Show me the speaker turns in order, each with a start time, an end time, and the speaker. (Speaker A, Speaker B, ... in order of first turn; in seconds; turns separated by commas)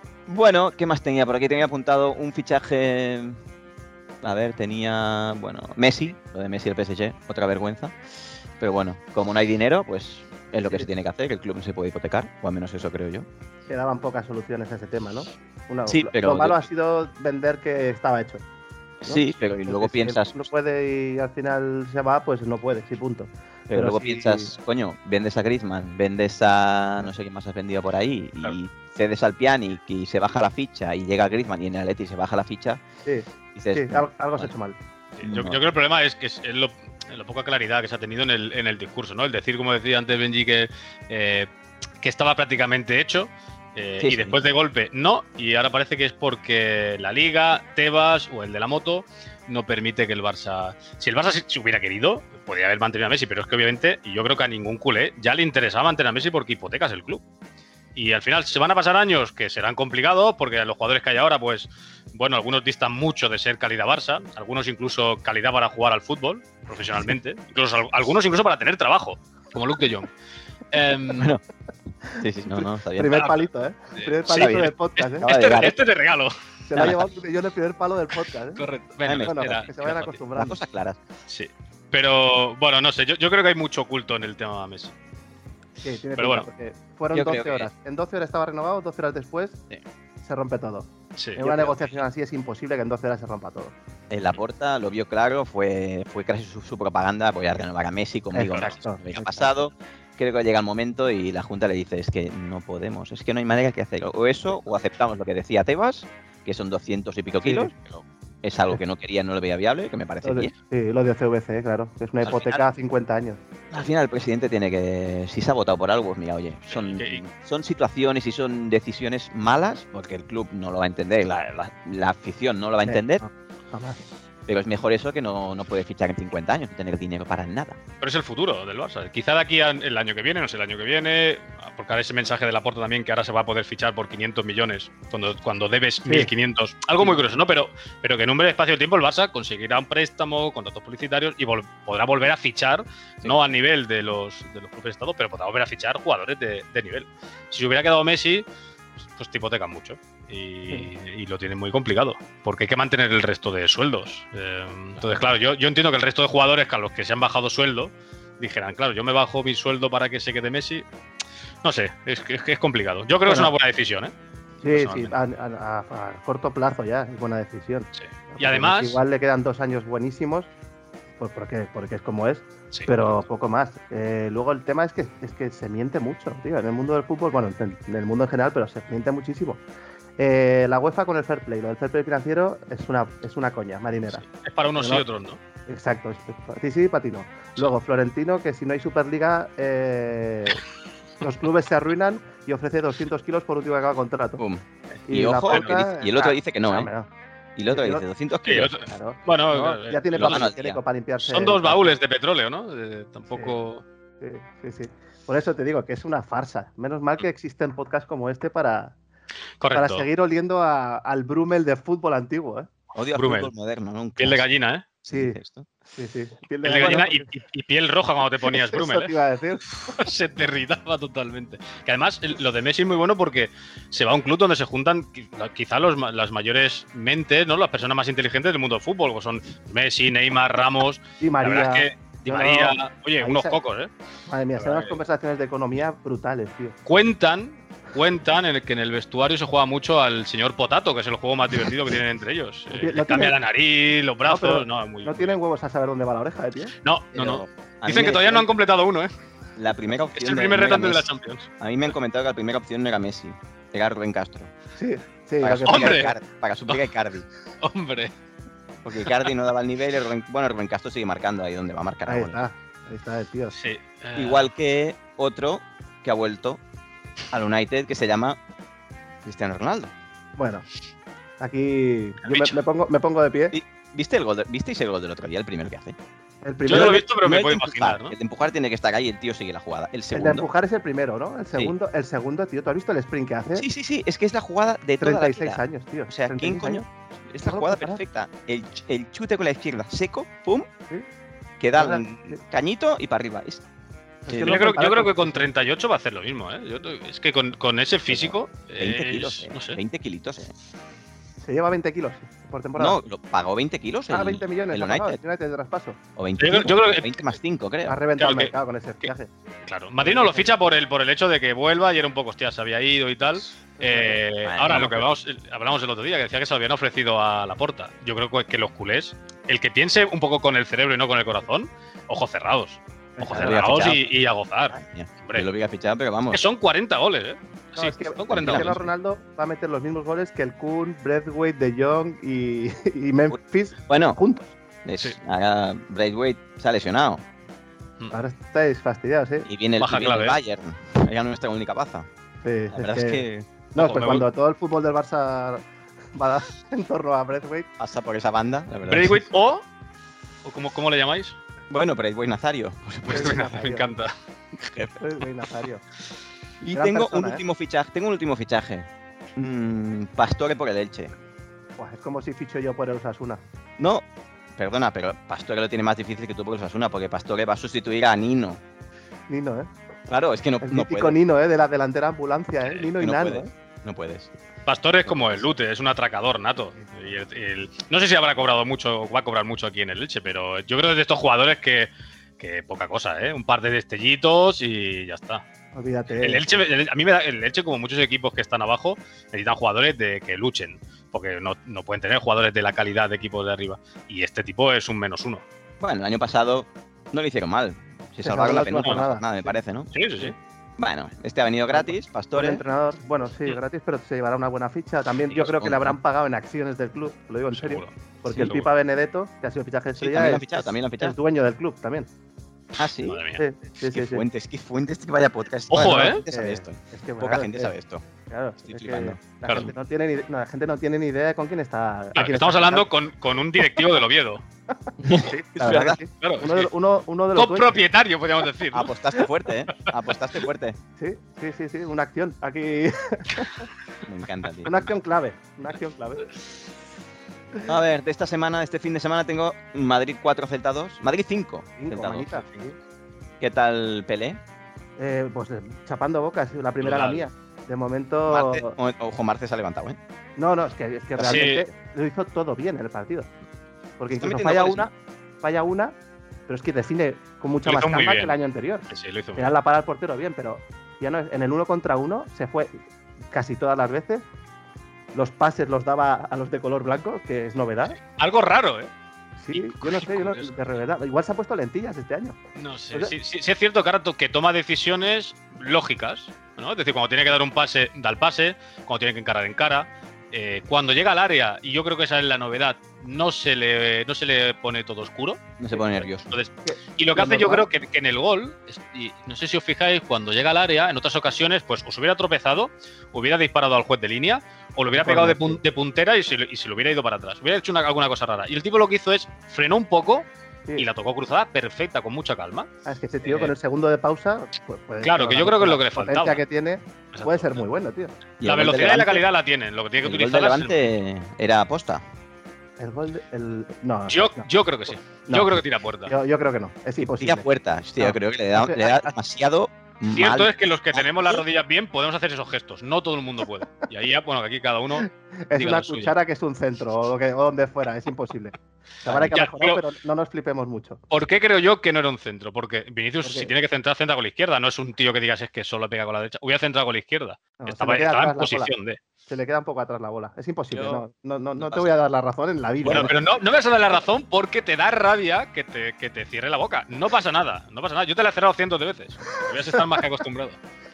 Speaker A: 0.3-3.4, Speaker A: 4.2-7.9, Speaker A: 8.6-13.3, Speaker B: 10.6-10.9, Speaker B: 13.7-18.4, Speaker A: 15.9-16.6, Speaker A: 19.0-20.5, Speaker B: 19.1-24.5, Speaker A: 23.7-32.8, Speaker B: 33.0-34.8, Speaker A: 33.5-34.5, Speaker C: 35.2-41.5, Speaker A: 35.2-35.6, Speaker C: 42.0-57.2, Speaker A: 44.0-44.4, Speaker C: 57.9-70.1, Speaker C: 70.7-71.3, Speaker A: 71.1-71.4, Speaker A: 72.2-73.3, Speaker B: 72.9-75.3, Speaker C: 73.1-73.4, Speaker C: 74.0-77.0, Speaker A: 74.3-75.8, Speaker B: 76.7-78.6, Speaker C: 78.6-80.2, Speaker A: 79.0-79.7, Speaker B: 79.2-80.6, Speaker A: 80.3-81.0, Speaker C: 81.3-84.9, Speaker B: 85.8-89.6, Speaker C: 86.2-86.5, Speaker A: 87.1-87.7, Speaker B: 90.2-93.7, Speaker C: 91.2-91.7, Speaker A: 91.4-91.7, Speaker A: 94.1-110.5, Speaker B: 98.3-99.4, Speaker C: 98.4-98.8, Speaker B: 107.4-107.7, Speaker B: 110.2-113.4, Speaker A: 112.2-112.6, Speaker A: 113.7-123.2, Speaker C: 116.8-117.2, Speaker B: 122.8-124.0, Speaker A: 124.5-127.8, Speaker C: 128.0-148.4, Speaker C: 149.0-160.8, Speaker C: 161.6-164.1, Speaker B: 163.2-163.5, Speaker B: 164.6-170.5, Speaker C: 164.7-165.2, Speaker C: 168.0-169.0, Speaker B: 171.2-179.6, Speaker B: 180.2-184.2, Speaker C: 184.2-185.4, Speaker B: 184.8-185.0, Speaker B: 185.7-190.6, Speaker B: 191.2-194.4, Speaker A: 194.4-196.9, Speaker B: 195.1-197.1, Speaker C: 195.5-195.8, Speaker A: 197.6-198.8, Speaker B: 197.7-198.0, Speaker C: 198.4-200.5, Speaker B: 198.8-201.9, Speaker A: 200.1-200.8, Speaker C: 201.2-203.8, Speaker B: 204.2-208.9, Speaker C: 209.6-210.1, Speaker B: 209.7-212.7, Speaker A: 212.9-214.4, Speaker C: 213.1-213.5, Speaker C: 214.2-214.9, Speaker A: 215.0-215.7, Speaker B: 215.1-215.4, Speaker B: 215.9-217.3, Speaker C: 216.6-219.1, Speaker B: 218.5-220.0, Speaker C: 219.8-233.9, Speaker B: 231.2-233.6, Speaker B: 234.3-236.7, Speaker C: 234.6-235.0, Speaker C: 236.8-245.4, Speaker B: 242.7-243.4, Speaker B: 244.3-246.7, Speaker C: 246.8-249.1, Speaker A: 247.1-248.4, Speaker A: 249.6-251.1, Speaker C: 250.1-251.5, Speaker A: 251.6-254.5, Speaker B: 254.8-256.1, Speaker A: 255.4-257.2, Speaker C: 255.7-256.1, Speaker C: 257.6-258.1, Speaker A: 258.8-262.4, Speaker B: 262.1-263.6, Speaker C: 263.5-264.5, Speaker A: 264.1-266.6, Speaker A: 267.3-268.4, Speaker A: 269.2-269.9, Speaker B: 270.4-270.6, Speaker B: 271.4-273.6, Speaker C: 272.2-272.6, Speaker A: 273.5-275.9, Speaker B: 276.4-277.1, Speaker C: 276.6-278.1, Speaker A: 276.7-280.5, Speaker B: 280.1-283.6, Speaker A: 283.5-290.7, Speaker B: 285.0-286.8, Speaker B: 287.4-288.0, Speaker A: 291.6-293.6, Speaker B: 291.8-292.4, Speaker B: 294.2-295.5, Speaker A: 294.3-294.6, Speaker C: 294.4-299.8, Speaker A: 298.1-300.5, Speaker B: 301.4-303.0, Speaker A: 302.8-305.2, Speaker B: 304.1-306.0, Speaker A: 306.1-308.0, Speaker C: 306.4-307.2, Speaker B: 307.9-309.3, Speaker C: 308.2-308.5, Speaker C: 309.6-325.5, Speaker B: 310.0-310.5, Speaker B: 313.8-314.2, Speaker A: 314.4-315.1, Speaker B: 323.2-323.6, Speaker A: 323.2-324.1, Speaker A: 324.7-326.4, Speaker C: 326.3-328.8, Speaker B: 327.8-334.5, Speaker A: 328.3-328.9, Speaker A: 333.9-334.2, Speaker A: 334.8-337.2, Speaker B: 338.1-339.5, Speaker A: 339.4-342.1, Speaker C: 339.8-340.4, Speaker B: 342.4-343.2, Speaker A: 342.7-343.5, Speaker B: 343.7-345.6, Speaker C: 343.8-344.3, Speaker B: 346.1-347.7, Speaker A: 347.8-349.2, Speaker C: 348.9-349.6, Speaker C: 350.4-351.4, Speaker A: 351.7-353.4, Speaker C: 353.0-354.1, Speaker B: 353.1-353.9, Speaker A: 354.5-354.9, Speaker B: 355.0-355.8, Speaker A: 356.6-361.1, Speaker B: 356.7-357.4, Speaker B: 361.8-363.4, Speaker A: 363.8-364.0, Speaker A: 364.5-368.6, Speaker B: 369.3-369.7, Speaker A: 370.1-371.2, Speaker B: 370.6-373.5, Speaker A: 372.9-374.3, Speaker C: 374.6-385.4, Speaker A: 375.0-375.5, Speaker B: 385.7-386.6, Speaker C: 386.2-395.4, Speaker A: 395.8-402.6, Speaker B: 398.2-399.6, Speaker C: 398.8-399.0, Speaker C: 399.9-400.3, Speaker B: 401.7-412.1, Speaker A: 405.3-405.9, Speaker C: 407.5-408.7, Speaker A: 410.0-411.1, Speaker A: 412.8-413.2, Speaker C: 413.0-413.4, Speaker B: 413.4-414.2, Speaker A: 413.9-418.0, Speaker C: 415.7-416.2, Speaker B: 416.3-417.7, Speaker B: 418.3-422.9, Speaker A: 418.6-419.2, Speaker C: 422.1-424.4, Speaker A: 425.0-426.0, Speaker B: 425.2-427.8, Speaker C: 426.1-426.7, Speaker C: 427.3-428.9, Speaker A: 428.7-430.8, Speaker B: 431.0-433.7, Speaker A: 434.0-434.9, Speaker B: 434.6-436.3, Speaker A: 437.6-442.4, Speaker B: 441.8-442.7, Speaker A: 443.4-444.4, Speaker B: 445.0-448.8, Speaker C: 446.8-447.3, Speaker A: 448.3-450.0, Speaker B: 450.4-453.3, Speaker A: 451.2-451.4, Speaker C: 451.2-451.6, Speaker B: 454.0-455.9, Speaker A: 454.2-454.9, Speaker B: 456.5-462.7, Speaker C: 457.6-458.4, Speaker C: 458.9-459.5, Speaker B: 463.3-464.2, Speaker B: 465.1-468.0, Speaker C: 468.1-468.9, Speaker B: 469.4-472.4, Speaker C: 469.5-470.5, Speaker C: 472.5-502.7, Speaker A: 485.6-486.3, Speaker B: 486.6-487.6, Speaker B: 494.9-495.6, Speaker B: 502.9-508.1, Speaker C: 503.2-503.5, Speaker C: 505.0-506.4, Speaker C: 507.1-507.6, Speaker A: 508.4-509.2, Speaker C: 508.4-510.9, Speaker A: 510.0-512.0, Speaker B: 512.8-515.5, Speaker C: 514.1-516.1, Speaker B: 516.0-517.5, Speaker A: 517.0-521.4, Speaker B: 518.0-519.0, Speaker C: 520.1-526.1, Speaker B: 525.0-531.0, Speaker C: 529.2-529.8, Speaker C: 531.1-539.0, Speaker B: 533.2-533.5, Speaker B: 537.6-538.7, Speaker B: 539.3-543.1, Speaker A: 540.7-541.0, Speaker A: 541.6-541.9, Speaker C: 542.8-550.6, Speaker A: 542.8-543.1